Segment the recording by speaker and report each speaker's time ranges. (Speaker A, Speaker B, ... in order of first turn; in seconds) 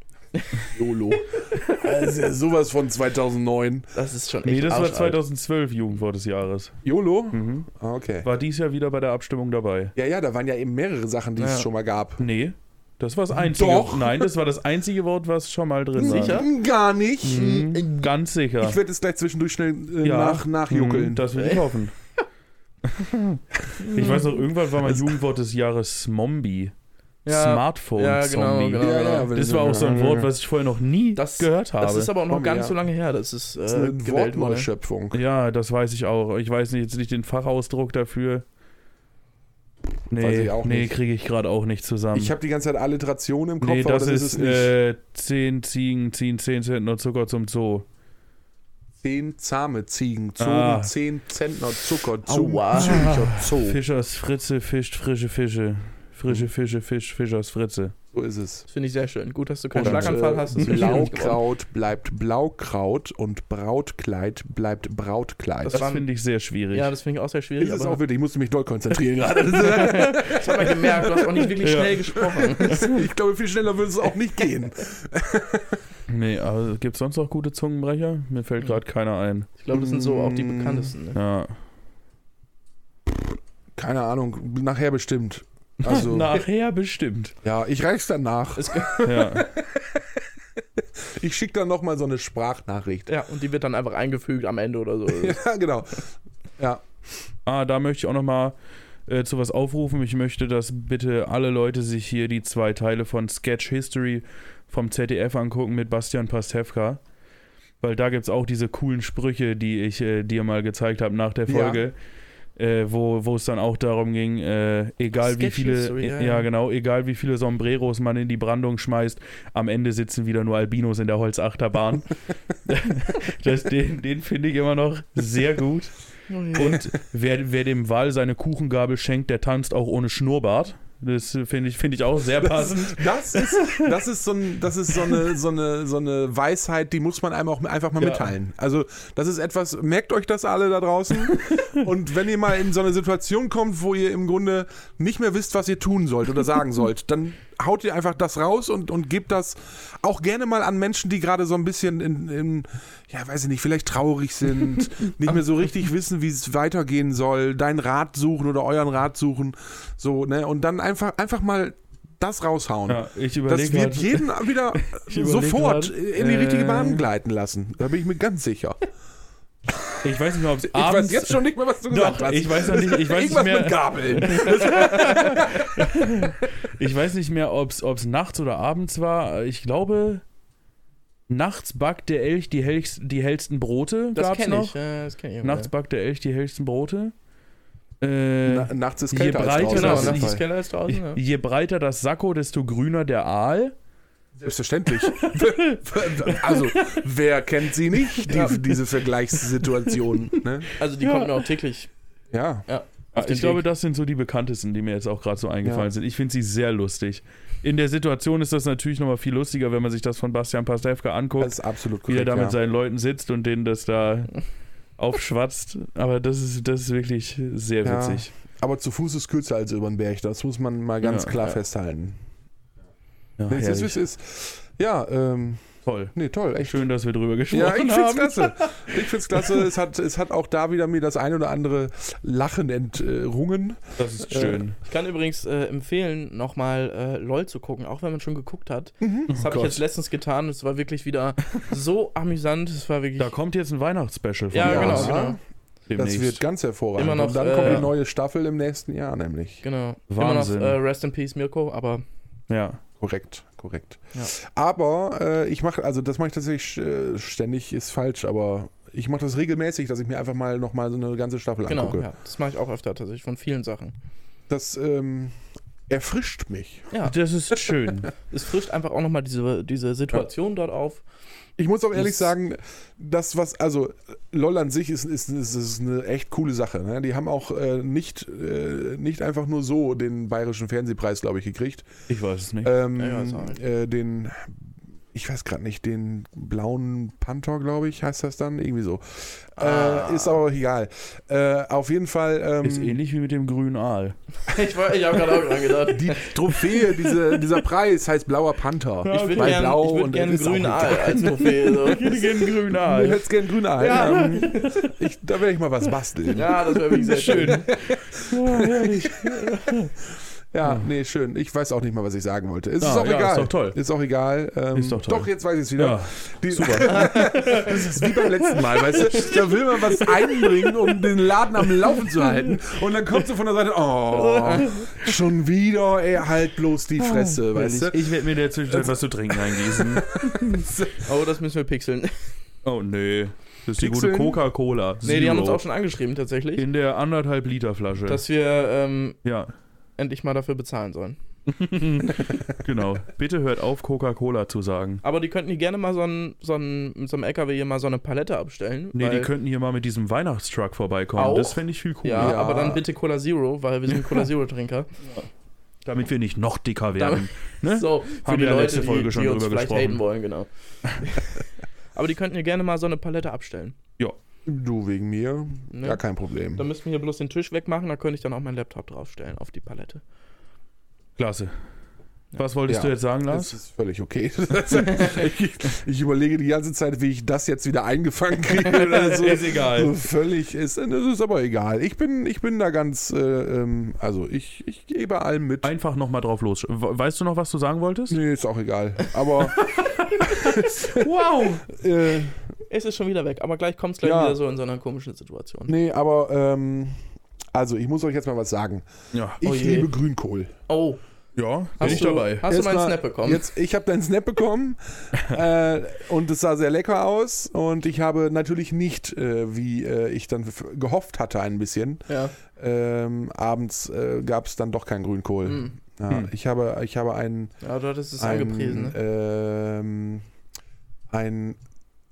Speaker A: 0.3-1.9, 3.9-5.2, 11.4-11.7, 16.0-16.5, 17.3-18.1, 21.3-21.7, 23.8-24.4, 27.2-29.3, 31.1-34.7, 52.2-53.3, 58.7-61.4, 65.6-66.0, 66.7-68.0, 69.5-73.0, 79.6-81.2, 88.6-89.4, 93.1-95.4, 115.2-116.5, 126.3-126.8, 184.1-185.7, 189.7-191.2, 198.3-198.6, 200.8-201.9, 202.7-203.6, 234.4-243.3, 244.5-245.4, 246.9-247.9, 249.6-252.0, 261.7-263.9, 266.9-267.2, 268.3-271.0, 271.9-272.3, 283.0-283.6, 289.6-290.4, 294.5-296.7, 299.1-302.6, 303.8-304.8, 306.3-307.7, 317.0-317.4, 324.1-325.1, 331.0-332.1, 335.0-336.6, 338.1-339.2, 340.0-341.2, 345.0-349.3, 351.1-354.9, 357.0-361.4, 361.9-363.8, 365.7-366.0, 366.6-370.0, 392.7-395.7, 399.4-399.9, 400.7-401.0, 401.8-403.5, 412.1-412.3, 415.4-415.7, 417.6-418.9
Speaker B: 0.7-3.9, 6.8-8.3, 9.9-12.2, 13.4-14.3, 16.0-17.6, 18.6-21.3, 23.7-24.1, 24.8-25.2, 28.8-30.3, 32.3-32.8, 33.7-35.2, 40.1-41.0, 42.1-44.7, 49.0-53.8, 58.1-58.6, 59.7-65.8, 67.6-71.6, 72.1-75.8, 79.7-80.9, 83.8-86.4, 87.4-89.5, 91.0-93.1, 95.1-96.1, 111.5-111.8, 126.6-127.0, 132.4-168.8, 170.6-176.1, 188.4-190.4, 194.4-200.7, 202.3-202.7, 205.6-205.9, 211.4-212.6, 217.8-222.2, 223.5-226.9, 227.5-234.6, 239.0-239.3, 244.6-245.4, 245.9-249.6, 253.0-262.1, 264.5-265.3, 265.9-266.9, 271.6-281.9, 282.6-284.6, 285.1-292.9, 295.9-301.3, 302.8-309.3, 310.5-328.1, 328.6-331.1, 333.8-334.4, 352.2-352.8, 364.4-366.6, 372.7-385.7, 388.1-392.4, 394.0-394.4, 395.7-397.0, 397.5-398.9, 399.4-400.5, 401.8-417.5, 418.2-420.2, 421.1-421.6
Speaker C: 4.4-6.8, 7.3-7.7, 8.2-9.9, 12.2-16.5, 17.2-18.8, 20.0-21.9, 22.8-23.4, 23.9-26.7, 27.3-32.1, 35.1-38.4, 40.1-42.3, 43.6-47.9, 50.4-50.9, 52.7-57.9, 59.8-61.1, 65.7-66.9, 71.6-72.1, 76.1-79.5, 81.1-81.5, 85.8-87.3, 89.0-89.5, 97.5-98.5, 99.1-107.0, 107.8-112.0, 112.5-122.1, 122.6-125.9, 126.5-133.9, 162.9-167.1, 170.0-180.2, 181.3-184.7, 185.4-187.1, 188.0-193.7, 195.0-197.0, 201.0-201.5, 203.1-214.3, 215.0-218.3, 221.0-221.3, 223.4-224.0, 225.8-229.7, 234.0-234.8, 239.3-239.8, 243.2-245.2, 245.9-246.4, 247.6-247.9, 250.1-250.8, 252.5-252.8, 267.0-268.1, 282.1-282.8, 292.6-294.1, 299.0-299.7, 301.1-303.2, 303.9-304.9, 306.9-309.9, 312.8-313.8, 314.7-319.2, 327.0-330.7, 332.6-335.6, 336.6-338.2, 339.2-339.5, 341.5-345.0, 348.9-352.4, 355.8-360.0, 371.2-371.5, 372.3-373.6, 378.7-379.9, 385.6-388.2, 390.3-391.6, 399.1-399.4, 401.4-402.5